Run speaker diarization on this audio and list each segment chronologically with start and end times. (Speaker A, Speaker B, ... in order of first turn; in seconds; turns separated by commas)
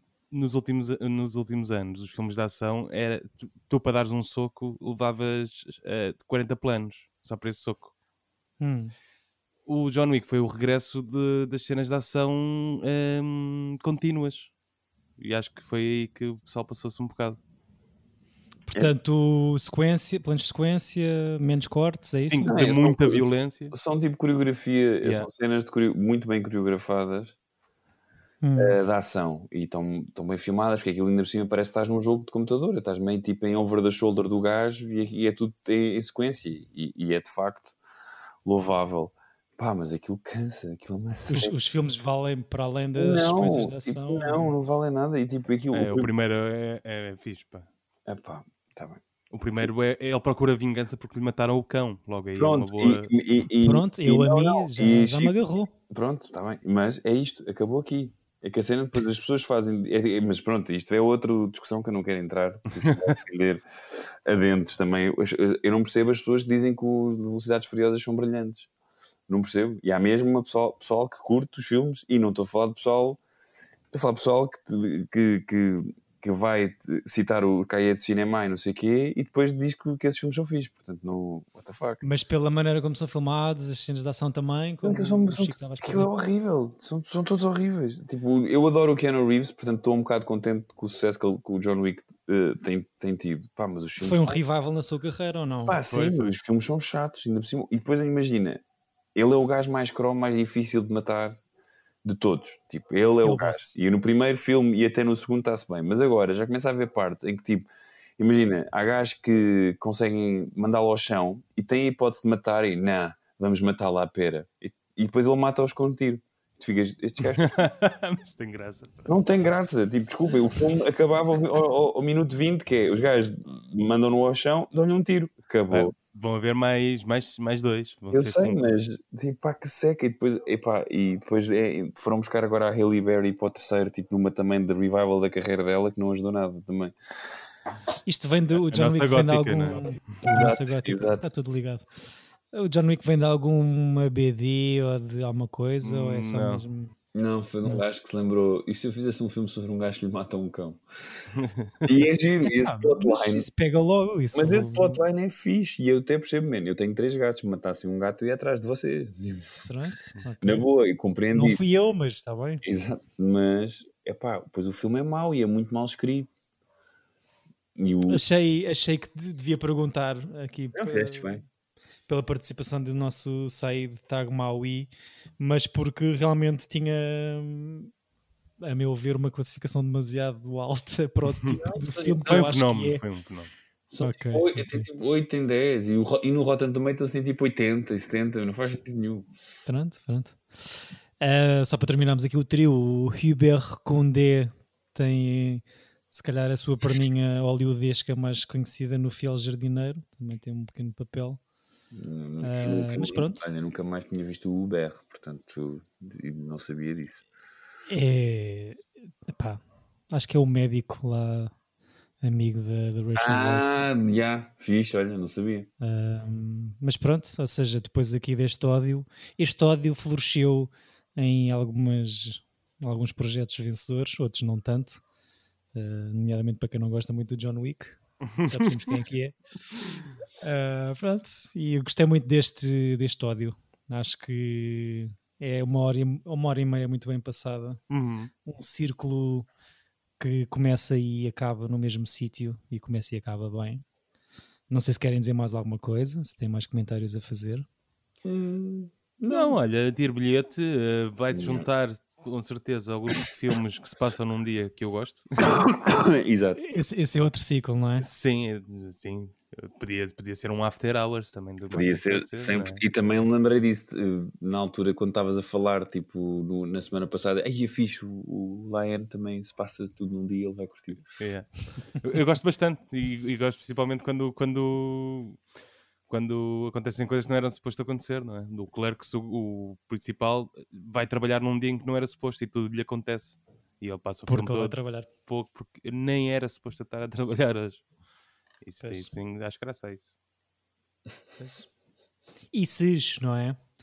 Speaker A: 0.3-7.9, Speaker B: 8.6-8.9, Speaker A: 9.7-14.5, Speaker A: 15.2-17.4, Speaker B: 18.7-22.5, Speaker A: 22.2-23.8, Speaker C: 22.4-27.4, Speaker B: 28.4-28.8, Speaker C: 28.6-37.8, Speaker C: 38.5-41.6, Speaker B: 41.3-44.5, Speaker C: 43.0-46.1, Speaker A: 45.7-47.7, Speaker C: 48.1-49.0, Speaker A: 49.3-53.1, Speaker C: 52.4-55.3, Speaker B: 53.6-55.7, Speaker C: 55.9-68.7, Speaker A: 62.8-63.1, Speaker C: 69.3-73.2, Speaker C: 73.9-82.0, Speaker B: 82.0-86.1, Speaker C: 84.8-94.4, Speaker B: 94.0-95.8, Speaker C: 95.7-98.6, Speaker A: 95.9-96.4, Speaker C: 99.2-101.4, Speaker C: 102.0-117.5, Speaker B: 103.2-103.8, Speaker A: 117.3-119.1, Speaker C: 119.1-125.9, Speaker A: 125.7-128.8, Speaker C: 128.1-136.9, Speaker B: 138.1-146.9, Speaker A: 138.6-139.8, Speaker C: 140.2-141.3, Speaker A: 145.8-146.6, Speaker C: 147.1-150.8, Speaker A: 151.3-151.9, Speaker C: 151.8-153.5, Speaker B: 152.5-155.0, Speaker C: 154.3-159.7, Speaker B: 159.7-160.7, Speaker C: 160.4-161.6, Speaker B: 161.3-162.6, Speaker C: 162.6-166.3, Speaker C: 167.8-168.2, Speaker B: 168.1-171.3, Speaker C: 170.8-171.4, Speaker B: 172.1-177.9, Speaker B: 178.6-183.0, Speaker C: 181.5-182.5, Speaker A: 182.3-183.5, Speaker C: 183.9-189.3, Speaker B: 184.0-184.9, Speaker B: 189.7-201.4, Speaker C: 201.9-207.2, Speaker B: 202.4-203.5, Speaker B: 207.9-211.5, Speaker B: 212.2-213.9, Speaker C: 213.2-215.7, Speaker B: 215.8-225.0, Speaker B: 225.7-229.3, Speaker A: 228.2-228.9, Speaker B: 230.4-237.8, Speaker A: 237.9-238.3, Speaker B: 238.4-239.5, Speaker B: 240.2-243.8, Speaker B: 244.7-247.7, Speaker C: 248.2-249.6, Speaker A: 249.3-255.4, Speaker C: 251.3-251.7, Speaker C: 255.4-256.6, Speaker B: 256.6-258.1, Speaker A: 258.0-262.8, Speaker C: 261.7-271.0, Speaker A: 271.1-275.4, Speaker A: 276.1-284.8, Speaker B: 284.3-285.1, Speaker A: 285.3-287.8, Speaker A: 288.6-290.1, Speaker B: 288.8-289.1, Speaker B: 291.4-291.7, Speaker B: 292.5-293.6